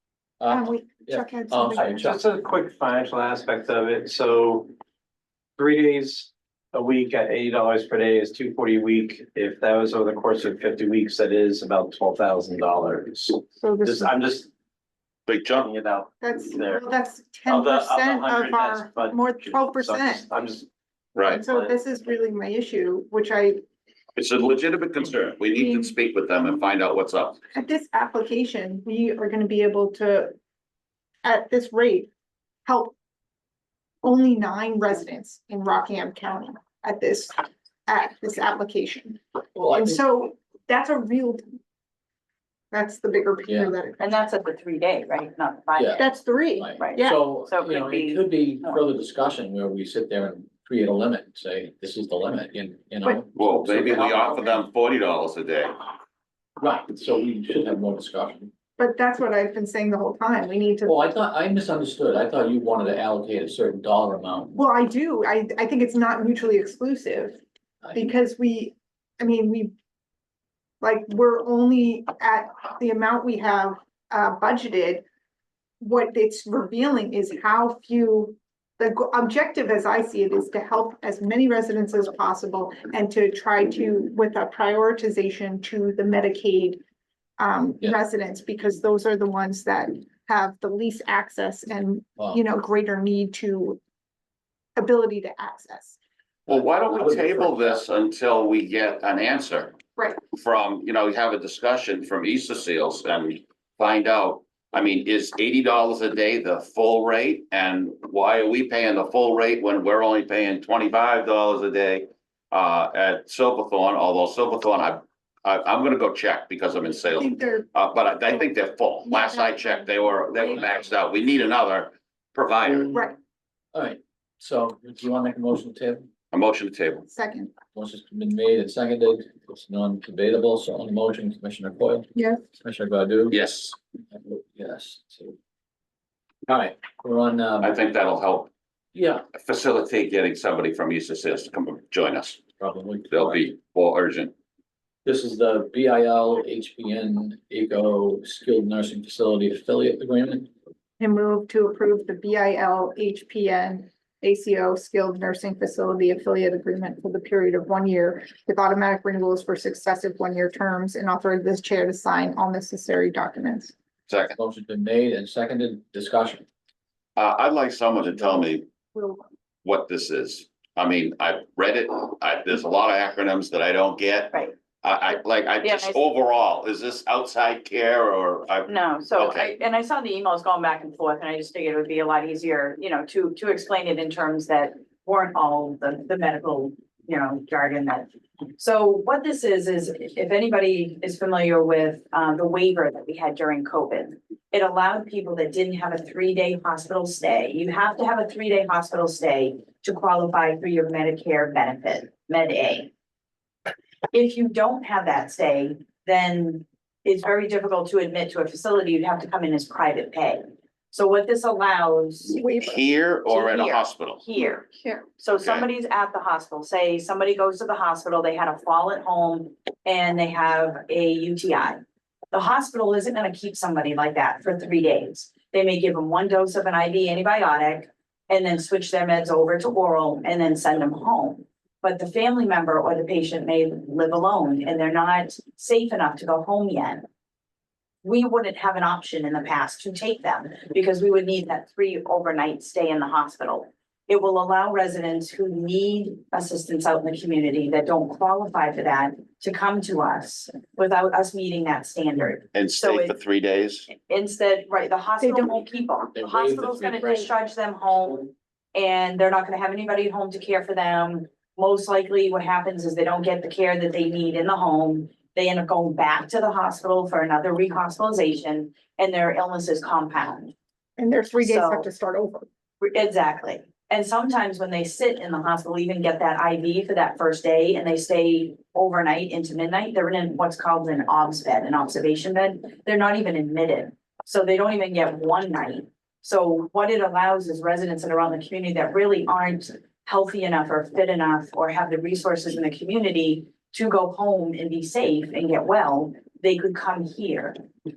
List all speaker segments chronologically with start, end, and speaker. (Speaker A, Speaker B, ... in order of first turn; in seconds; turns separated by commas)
Speaker A: 0.4-2.2, Speaker B: 0.5-2.1, Speaker C: 2.0-4.7, Speaker C: 5.6-14.5, Speaker B: 13.6-14.1, Speaker D: 15.3-15.7, Speaker C: 15.4-16.8, Speaker B: 16.2-20.2, Speaker C: 17.4-21.8, Speaker D: 21.1-21.4, Speaker B: 21.3-23.6, Speaker D: 24.1-27.4, Speaker B: 25.6-25.9, Speaker B: 27.5-30.3, Speaker B: 31.2-32.1, Speaker B: 32.6-32.9, Speaker B: 34.0-39.2, Speaker A: 39.5-40.0, Speaker B: 39.7-41.5, Speaker B: 42.7-44.2, Speaker A: 43.5-43.7, Speaker E: 44.0-46.0, Speaker A: 45.8-54.3, Speaker B: 46.0-47.2, Speaker E: 46.8-48.8, Speaker B: 53.0-54.6, Speaker D: 53.3-55.8, Speaker A: 56.6-58.5, Speaker B: 58.8-60.9, Speaker A: 60.8-64.6, Speaker B: 64.5-67.4, Speaker A: 67.8-68.1, Speaker B: 67.9-69.7, Speaker B: 70.8-75.0, Speaker B: 75.8-86.8, Speaker B: 87.4-93.8, Speaker B: 94.8-96.0, Speaker D: 96.5-99.8, Speaker A: 96.5-97.8, Speaker D: 100.3-123.0, Speaker B: 117.1-117.7, Speaker B: 119.0-120.8, Speaker A: 120.5-120.9, Speaker B: 122.9-123.2, Speaker A: 123.7-126.1, Speaker D: 126.3-127.1, Speaker B: 127.1-127.5, Speaker A: 127.7-133.4, Speaker D: 133.3-133.7, Speaker A: 134.1-135.3, Speaker A: 136.5-137.8, Speaker D: 137.6-138.5, Speaker A: 138.9-139.2, Speaker D: 139.3-142.4, Speaker A: 142.6-143.4, Speaker D: 143.1-144.3, Speaker A: 145.0-150.5, Speaker B: 151.0-163.7, Speaker D: 164.1-164.3, Speaker A: 164.3-166.4, Speaker D: 167.2-168.7, Speaker B: 168.9-169.2, Speaker D: 169.6-179.5, Speaker E: 175.6-176.0, Speaker E: 178.7-202.9, Speaker E: 204.1-212.4, Speaker B: 212.3-212.8, Speaker D: 212.6-214.2, Speaker E: 213.3-237.1, Speaker B: 214.4-215.1, Speaker D: 215.4-215.7, Speaker E: 238.0-253.2, Speaker D: 252.5-253.9, Speaker E: 253.9-270.5, Speaker B: 255.2-255.7, Speaker A: 256.1-257.3, Speaker B: 271.0-272.5, Speaker E: 271.4-271.9, Speaker E: 272.8-297.6